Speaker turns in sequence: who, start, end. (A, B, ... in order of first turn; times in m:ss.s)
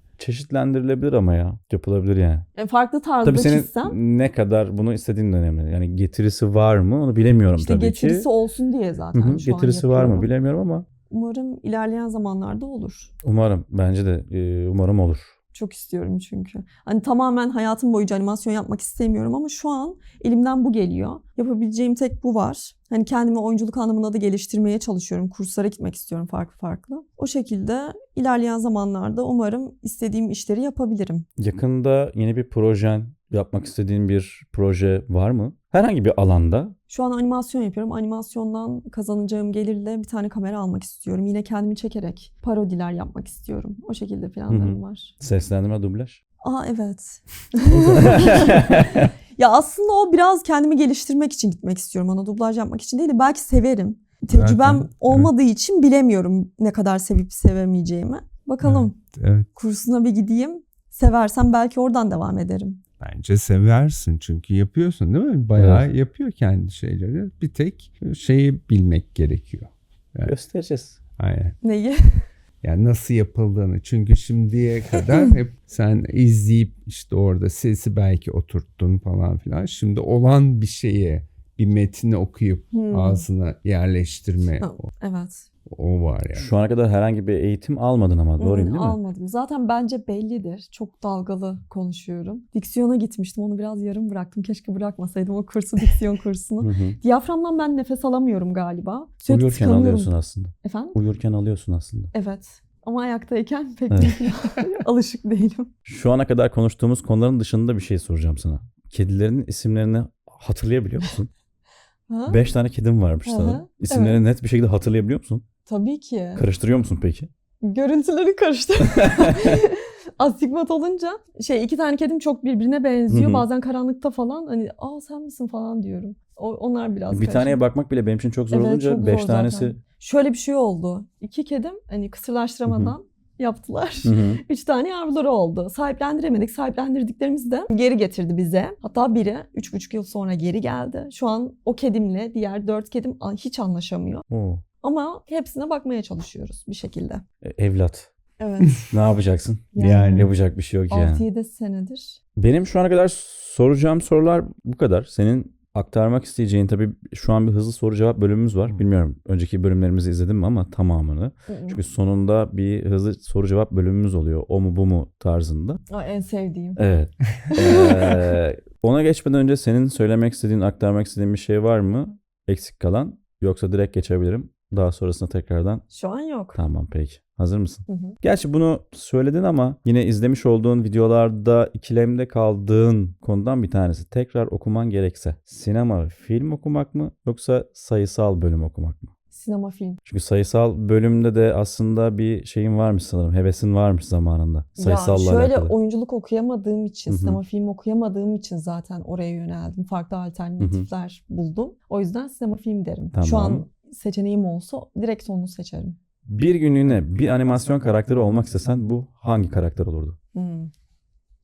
0:00.2-0:02.5 A
0:02.6-0:04.0 B
0:03.2-0:08.3 A
0:07.6-0:10.3 B
0:09.1-0:10.8 A
0:11.1-0:13.1 B
0:13.2-0:15.3 A
0:15.5-0:31.3 B
0:31.4-0:36.8 A
0:36.9-0:45.1 B
0:44.5-0:46.2 A
0:46.4-0:48.8 B
0:47.7-0:49.1 A
0:49.4-0:59.0 B
0:54.3-0:55.3 C
0:58.6-0:59.5 C
0:59.6-1:02.8 B
1:03.0-1:10.3 C
1:05.6-1:05.9 A
1:10.2-1:11.0 A
1:11.2-1:11.6 C
1:11.6-1:12.3 B
1:12.6-1:24.9 C
1:22.7-1:23.2 B
1:24.6-1:25.5 B
1:25.7-1:26.5 C
1:26.3-1:29.0 A
1:28.4-1:41.0 B
1:36.6-1:37.0 A
1:39.3-1:42.1 A
1:42.1-1:45.7 B
1:43.9-1:44.2 A
1:45.9-1:51.3 A
1:52.1-1:52.4 B
1:52.3-1:55.4 A
1:53.2-1:54.2 B
1:55.7-1:56.4 B
1:56.4-1:57.3 A
1:57.6-2:07.6 B
1:58.8-1:59.6 A
2:03.1-2:03.4 A
2:07.1-2:09.8 A
2:08.5-2:24.2 B
2:12.7-2:13.0 A
2:14.0-2:14.4 A
2:24.3-2:24.6 A
2:24.8-2:27.2 B
2:27.4-2:28.1 A
2:28.4-2:28.8 B
2:28.9-2:31.2 A
2:29.8-2:30.3 B
2:29.8-2:30.3 C
2:30.9-2:32.2 B
2:32.4-2:45.8 A
2:41.5-2:41.8 B
2:45.9-2:46.8 B
2:46.8-2:55.8 A
2:47.6-2:48.2 B
2:55.9-2:56.6 B
2:56.6-3:09.1 A
2:57.9-2:58.2 B
3:09.3-3:10.0 B
3:10.0-3:15.7 A
3:14.8-3:26.0 B
3:17.1-3:17.4 A
3:20.6-3:20.9 A
3:23.1-3:23.6 A
3:26.3-3:30.2 A
3:30.3-3:30.7 B